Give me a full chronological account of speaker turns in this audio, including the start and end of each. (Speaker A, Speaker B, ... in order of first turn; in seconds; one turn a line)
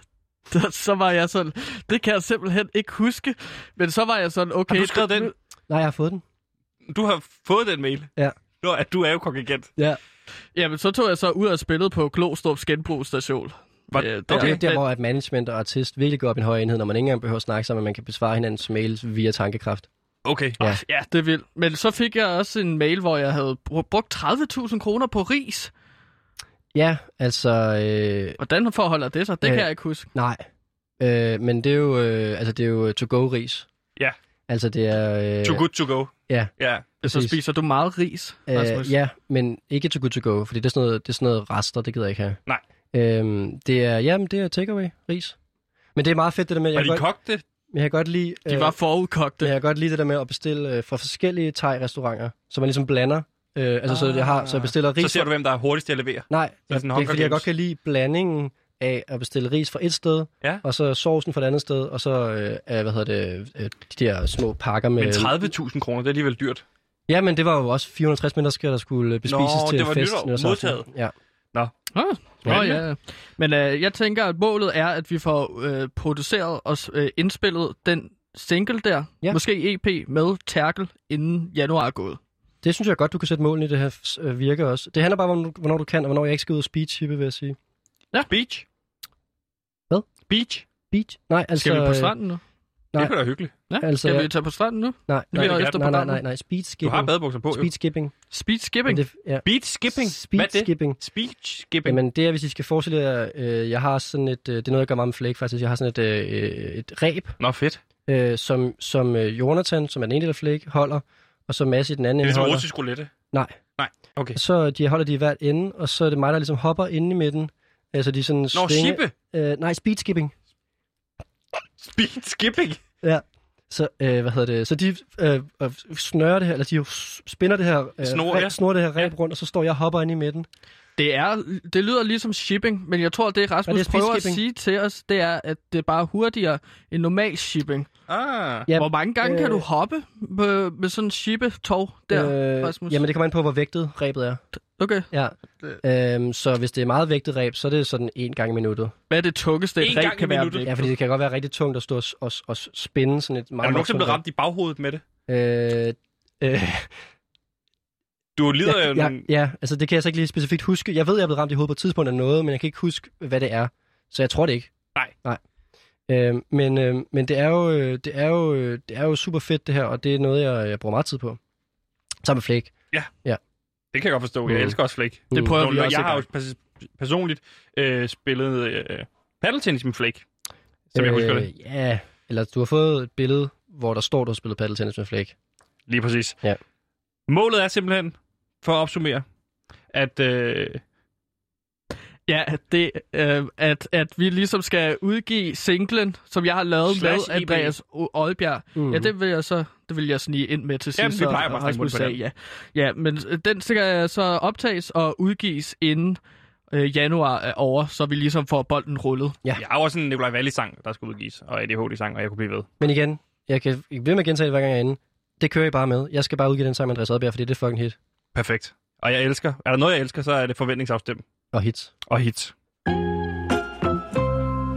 Speaker A: 0.5-5.3
Speaker B: 4.7-5.3
Speaker C: 5.7-6.2
Speaker B: 6.9-8.1
Speaker B: 8.6-9.7
Speaker A: 10.5-14.8
Speaker B: 13.9-14.7
Speaker C: 14.3-19.9
Speaker B: 20.2-20.6
Speaker A: 20.6-25.7
Speaker C: 26.7-28.4
Speaker A: 28.4-30.1
Speaker C: 29.4-30.4
Speaker C: 31.0-33.7
Speaker C: 34.5-35.6
Speaker B: 35.4-36.9
Speaker C: 37.0-37.4
Speaker A: 37.0-39.0
Speaker C: 38.5-42.4
Speaker C: 42.9-45.4
Speaker C: 45.9-47.0
Speaker B: 46.7-47.4
Speaker C: 47.7-48.7
Speaker A: 48.5-49.5
Speaker C: 49.4-55.3
Speaker B: 53.9-57.5
Speaker C: 56.3-65.4
Speaker B: 65.0-66.6
Speaker C: 67.1-71.1
Speaker B: 69.2-70.8
Speaker A: 71.9-82.2
Speaker B: 72.4-72.8
Speaker C: 72.5-72.7
Speaker C: 82.6-87.5
Speaker B: 88.3-88.6
Speaker B: 90.3-90.7
Speaker C: 90.8-92.1
Speaker A: 91.5-92.4
Speaker B: 93.0-93.5
Speaker A: 93.7-96.2
Speaker C: 93.8-94.3
Speaker C: 95.1-98.1
Speaker B: 95.3-95.8
Speaker B: 96.8-97.7
Speaker A: 98.3-99.0
Speaker C: 98.8-101.0
Speaker B: 99.4-102.0
Speaker C: 101.8-107.4
Speaker B: 107.4-107.8
Speaker C: 108.1-112.7
Speaker B: 112.2-113.1
Speaker B: 113.8-114.4
Speaker C: 114.3-120.3
Speaker B: 118.5-119.1
Speaker B: 121.8-122.8
Speaker C: 123.0-130.5
Speaker B: 128.0-129.1
Speaker A: 131.0-137.9
Speaker C: 133.7-134.4
Speaker B: 138.1-138.7
Speaker C: 138.7-139.6
Speaker A: 138.8-143.0
Speaker C: 142.1-144.4
Speaker A: 144.8-145.1
Speaker C: 145.1-148.9
Speaker A: 149.1-150.7
Speaker B: 149.8-150.9
Speaker C: 150.6-154.2
Speaker B: 153.6-155.0
Speaker C: 155.3-156.9
Speaker B: 158.4-159.2
Speaker C: 158.6-164.7
Speaker C: 166.1-171.4
Speaker C: 172.2-172.7
Speaker B: 173.9-180.2
Speaker C: 174.5-174.7
Speaker C: 175.3-175.6
Speaker A: 175.3-176.2
Speaker B: 180.9-181.5
Speaker C: 180.9-185.3
Speaker B: 185.9-186.4
Speaker B: 187.3-189.2
Speaker B: 189.9-190.8
Speaker A: 192.3-206.2
Speaker B: 196.8-197.7
Speaker C: 198.7-199.1
Speaker B: 200.9-202.2
Speaker A: 206.7-209.3
Speaker B: 209.6-212.7
Speaker C: 212.8-217.9
Speaker B: 218.3-221.2
Speaker C: 221.5-221.9
Speaker B: 222.1-222.5